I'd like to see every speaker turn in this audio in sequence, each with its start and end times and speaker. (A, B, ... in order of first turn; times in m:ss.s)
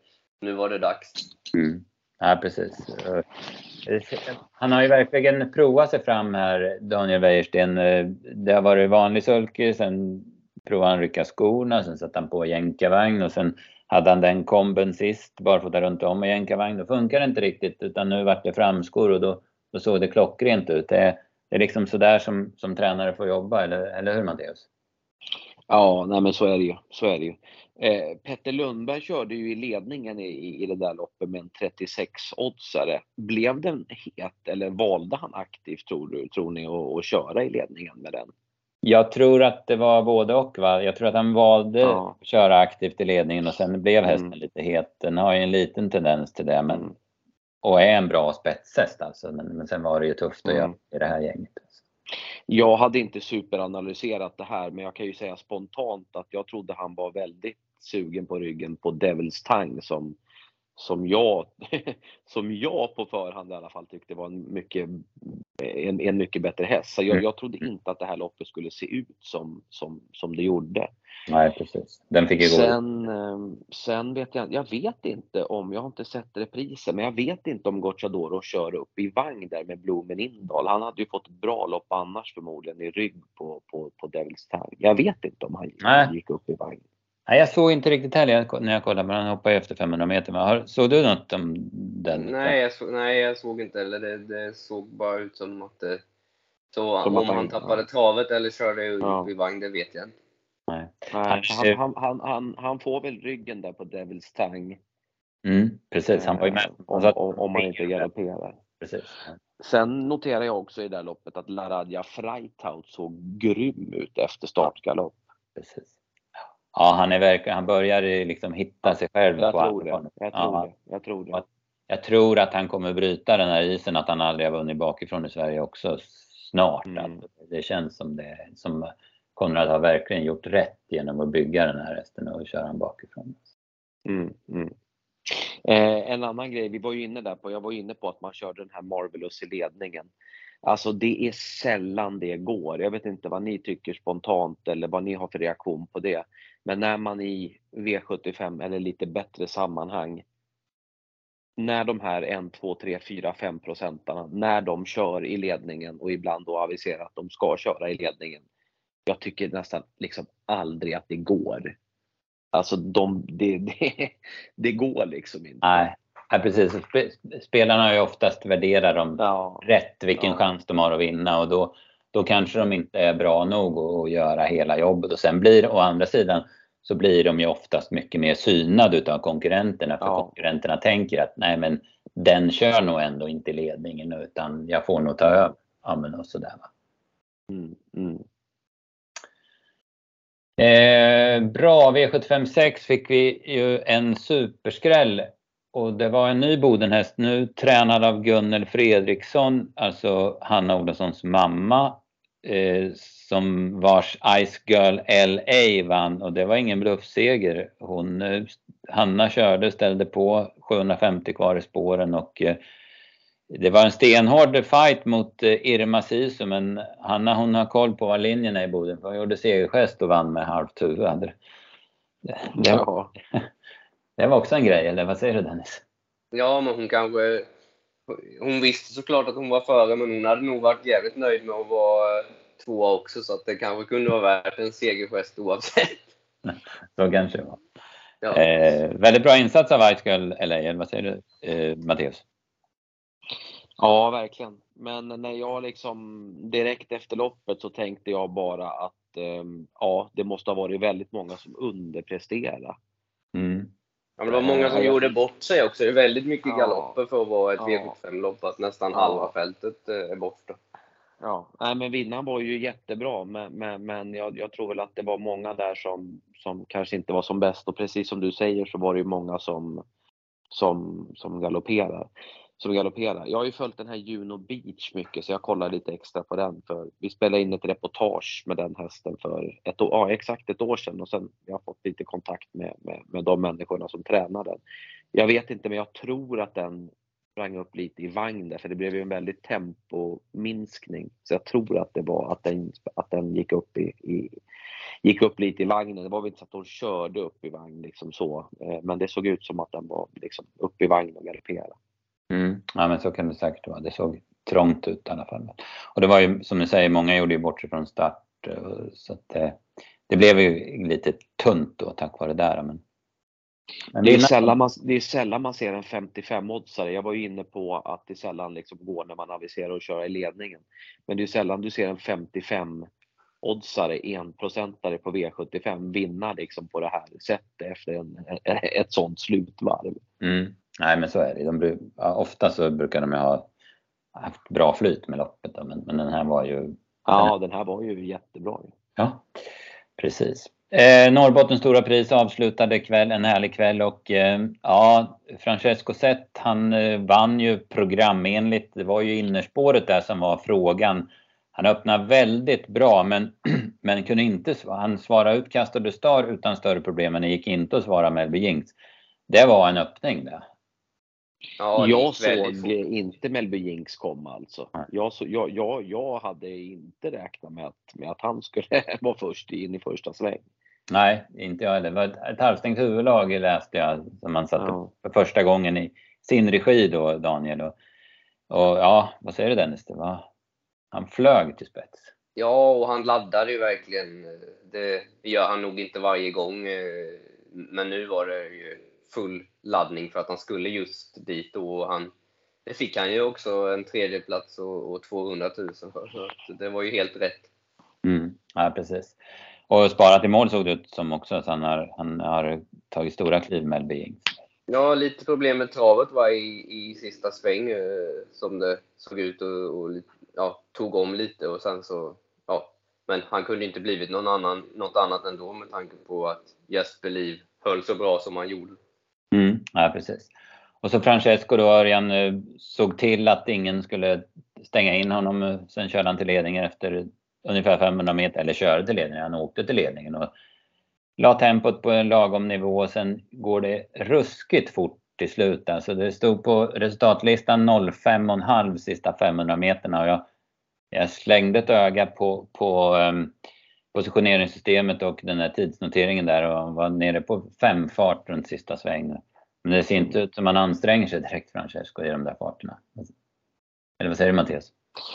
0:00.4-0:01.2 A
0:01.5-0:03.3 B
0:03.8-0:24.6 B
0:25.7-0:38.3 C
0:38.8-0:46.9 B
0:41.8-0:42.2 C
0:44.1-0:44.4 C
0:46.7-0:47.0 C
0:47.6-0:51.8 B
0:50.4-0:50.8 C
0:52.5-1:00.2 C
1:00.8-1:10.9 C
1:11.3-1:12.8 B
1:12.4-1:26.8 C
1:25.8-1:26.1 B
1:27.3-1:32.6 B
1:32.1-1:36.0 A
1:36.7-1:40.1 A
1:37.0-1:37.8 C
1:39.0-1:39.3 C
1:40.7-1:41.8 B
1:41.1-1:44.8 C
1:45.4-1:48.1 B
1:46.2-1:48.6 C
1:48.8-1:49.4 B
1:49.6-1:55.2 C
1:55.6-1:55.9 B
1:56.7-2:00.7 B
1:59.4-2:01.4 C
2:01.3-2:13.4 B
2:06.9-2:07.2 C
2:14.1-2:14.7 C
2:15.3-2:20.1 C
2:20.6-2:30.2 C
2:31.6-2:38.4 C
2:39.1-2:41.8 C
2:42.5-2:45.8 C
2:45.6-3:06.7 B
2:49.2-2:50.4 C
3:00.0-3:00.3 C
3:07.5-3:08.2 C
3:10.6-3:32.6 B
3:33.5-3:41.4 B
3:42.2-3:43.5 B
3:42.5-3:43.1 C
3:44.2-3:45.8 B
3:46.3-3:47.5 A
3:48.1-3:56.0 A
3:56.4-3:57.6 B
3:58.2-3:58.7 A
3:58.3-4:02.2 B
4:03.8-4:12.8 C
4:13.4-4:13.7 B
4:14.2-4:20.6 A
4:14.3-4:14.6 B
4:14.4-4:15.1 C
4:16.5-4:17.0 C
4:17.6-4:18.0 C
4:18.9-4:19.3 C
4:21.2-4:29.8 C
4:30.5-4:44.6 C
4:45.1-4:54.4 C
4:55.0-5:01.8 C
5:02.3-5:12.8 B
5:13.9-5:14.5 B
5:14.0-5:22.9 C
5:23.4-5:30.0 C
5:30.2-5:33.5 B
5:34.2-5:37.3 B
5:37.1-5:38.7 C
5:39.0-5:39.3 B
5:40.0-5:58.7 B
5:59.3-6:00.4 B
6:01.6-6:02.8 A
6:01.8-6:10.4 C
6:10.9-6:17.8 B
6:14.6-6:14.9 C
6:18.5-6:20.3 B
6:20.9-6:22.1 B
6:22.4-6:32.1 A
6:32.7-6:37.5 A
6:38.0-6:39.2 B
6:39.7-6:44.3 B
6:44.7-6:58.8 A
6:59.3-7:00.3 B
7:00.8-7:10.3 B
7:11.2-7:20.3 B
7:20.9-7:23.3 B
7:23.9-7:33.1 B
7:34.0-7:34.7 B